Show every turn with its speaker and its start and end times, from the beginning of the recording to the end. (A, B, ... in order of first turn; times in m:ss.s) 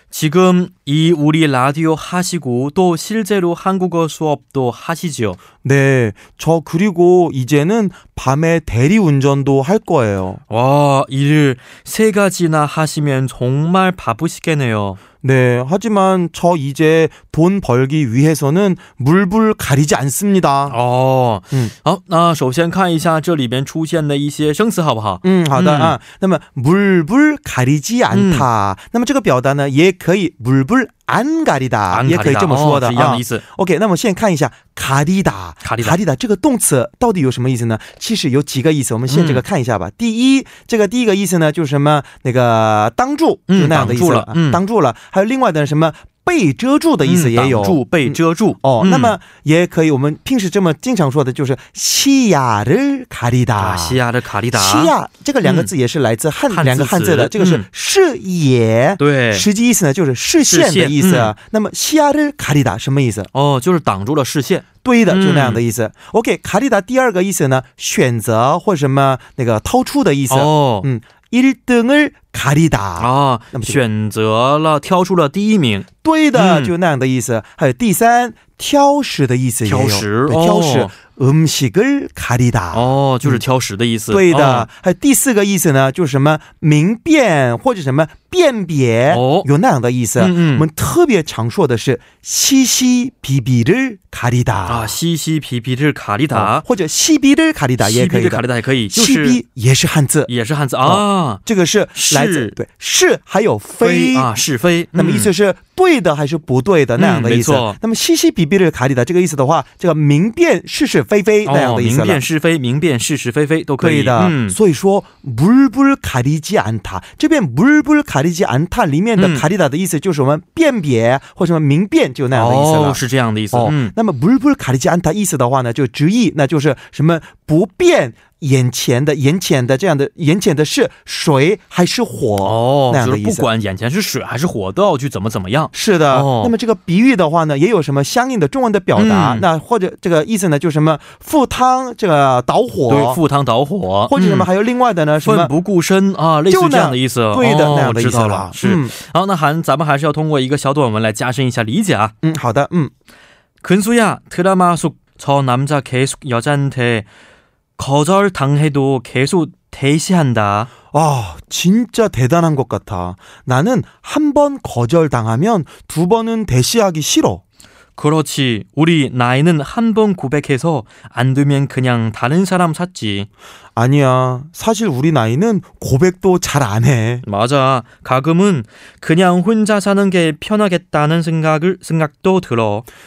0:00.1-0:05.4 A
0:05.6-0:10.4 B
0:10.5-0:15.0 A
0:15.2-0:20.8 B
0:20.7-0:26.0 A
0:25.2-0:54.0 B
0:28.1-0:28.4 A
0:31.9-0:33.4 A
0:35.6-0:36.0 A
0:39.1-0:39.4 A
0:43.5-0:44.6 A
0:47.0-0:49.2 A
0:53.6-0:55.7 A
0:54.5-1:03.3 B
0:56.5-0:57.6 A
0:59.0-0:59.5 A
1:00.5-1:01.3 A
1:03.3-1:05.6 A
1:04.8-1:13.8 B
1:10.3-1:10.9 A
1:13.0-1:16.7 A
1:16.0-1:23.4 B
1:19.6-1:20.9 A
1:22.7-1:24.7 A
1:24.1-1:34.9 B
1:29.1-1:29.5 A
1:30.2-1:30.7 A
1:34.6-1:36.6 A
1:36.3-1:40.3 B
1:37.8-1:39.4 A
1:40.3-1:41.4 A
1:40.8-1:44.3 B
1:41.9-1:42.6 A
1:43.8-1:45.3 A
1:44.9-1:52.2 B
1:47.0-1:47.8 A
1:51.4-1:54.6 A
1:53.8-2:13.5 B
1:59.2-1:59.4 A
2:02.3-2:03.9 A
2:12.4-2:16.5 A
2:15.7-2:23.2 B
2:18.9-2:19.4 A
2:22.9-2:24.5 A
2:24.1-2:25.5 B
2:25.2-2:32.1 A
2:26.5-2:28.9 B
2:32.2-2:32.9 B
2:33.6-2:37.1 A
2:37.8-2:40.7 A
2:40.9-2:47.4 B
2:48.0-2:53.3 A
2:53.8-2:57.2 B
2:57.2-3:02.8 A